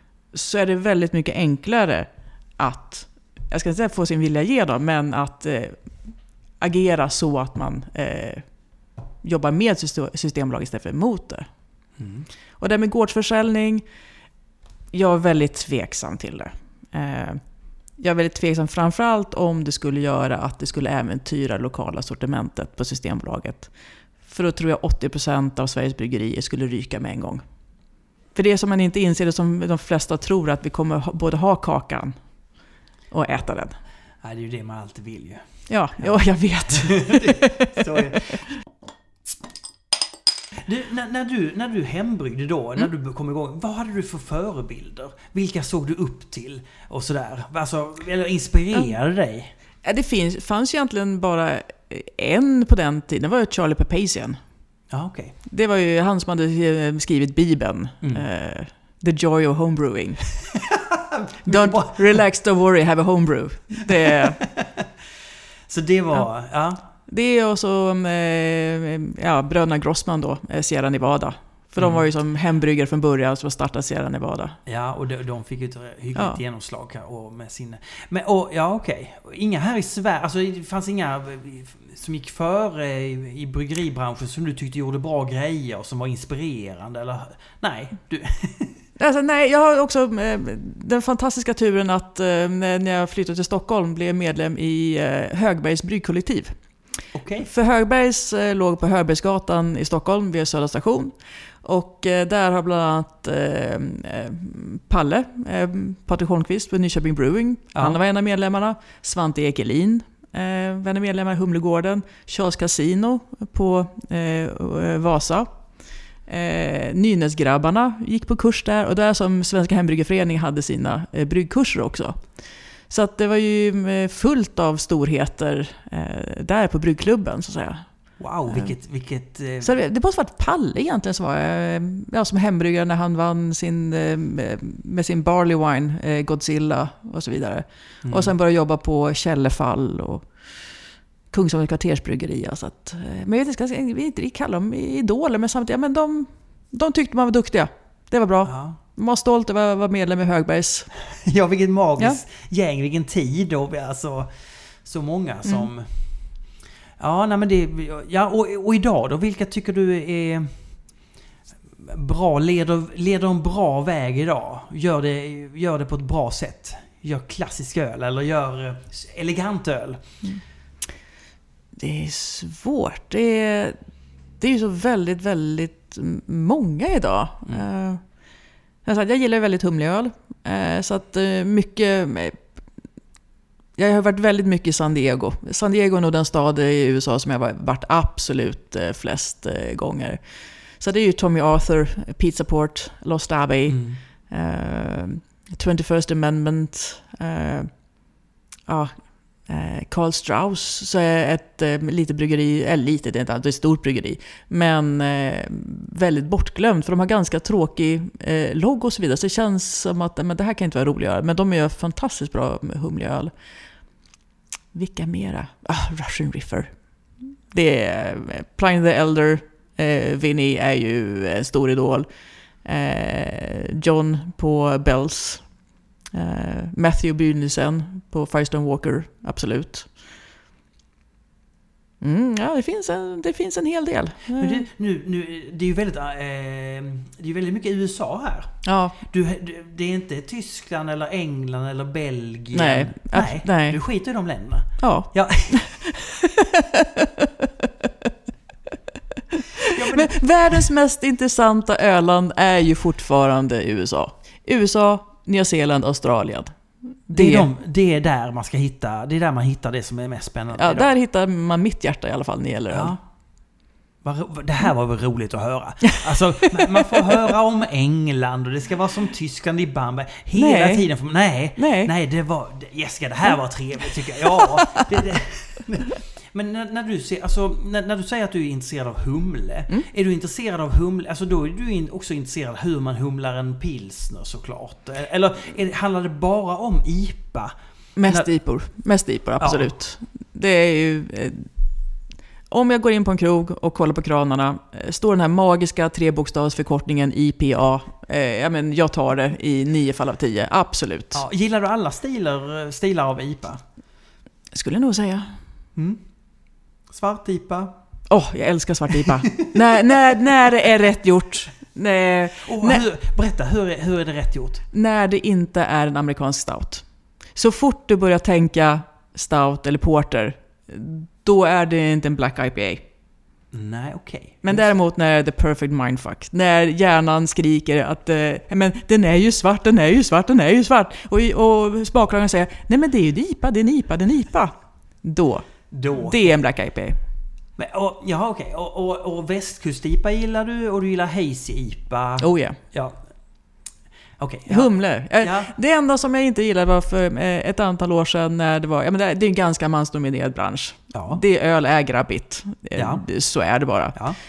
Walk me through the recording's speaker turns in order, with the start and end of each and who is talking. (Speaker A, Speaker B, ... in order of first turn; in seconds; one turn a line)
Speaker A: 0.3-8.6
Speaker A: 9.2-11.5
Speaker B: 12.0-12.3
Speaker A: 12.6-13.8
Speaker A: 14.9-23.7
Speaker A: 24.2-27.4
Speaker A: 28.3-32.2
Speaker A: 33.1-33.8
Speaker B: 34.2-38.5
Speaker A: 35.7-38.5
Speaker B: 40.6-49.5
Speaker A: 49.8-54.4
Speaker B: 54.9-55.4
Speaker A: 55.5-60.4
Speaker B: 60.5-62.0
Speaker A: 61.4-64.4
Speaker B: 64.4-64.9
Speaker B: 65.7-66.8
Speaker A: 67.1-74.6
Speaker B: 71.8-72.0
Speaker B: 74.7-88.8
Speaker A: 89.0-96.7
Speaker B: 97.1-97.5
Speaker A: 97.4-127.9
Speaker B: 128.2-129.7
Speaker A: 129.6-140.7
Speaker B: 138.0-138.3
Speaker A: 141.3-150.9
Speaker B: 148.4-148.8
Speaker B: 151.1-156.4
Speaker B: 157.0-161.0
Speaker B: 161.8-170.0
Speaker A: 171.8-173.8
Speaker A: 174.4-182.5
Speaker A: 183.8-198.1
Speaker B: 193.7-194.0
Speaker A: 198.7-213.3
Speaker A: 214.7-222.1
Speaker A: 222.6-225.6
Speaker A: 226.1-229.9
Speaker A: 232.0-234.6
Speaker B: 234.3-245.7
Speaker A: 238.6-238.9
Speaker A: 242.5-243.8
Speaker A: 244.8-247.8
Speaker A: 249.3-257.5
Speaker B: 249.7-250.6
Speaker B: 257.1-260.9
Speaker A: 260.5-263.0
Speaker B: 262.7-263.0
Speaker B: 264.0-287.5
Speaker A: 266.7-267.1
Speaker A: 270.3-270.9
Speaker A: 271.6-271.9
Speaker A: 274.1-274.9
Speaker A: 287.9-291.5
Speaker B: 289.4-289.7
Speaker A: 292.5-301.2
Speaker B: 301.1-303.6
Speaker A: 304.5-305.4
Speaker B: 305.7-306.0
Speaker B: 306.9-307.7
Speaker A: 308.1-312.8
Speaker B: 312.4-314.6
Speaker A: 314.7-322.8
Speaker B: 323.5-324.7
Speaker A: 324.4-337.0
Speaker B: 335.7-336.4
Speaker B: 337.6-343.0
Speaker A: 342.2-342.6
Speaker B: 344.2-345.5
Speaker A: 344.5-354.0
Speaker B: 350.9-351.2
Speaker B: 352.7-353.1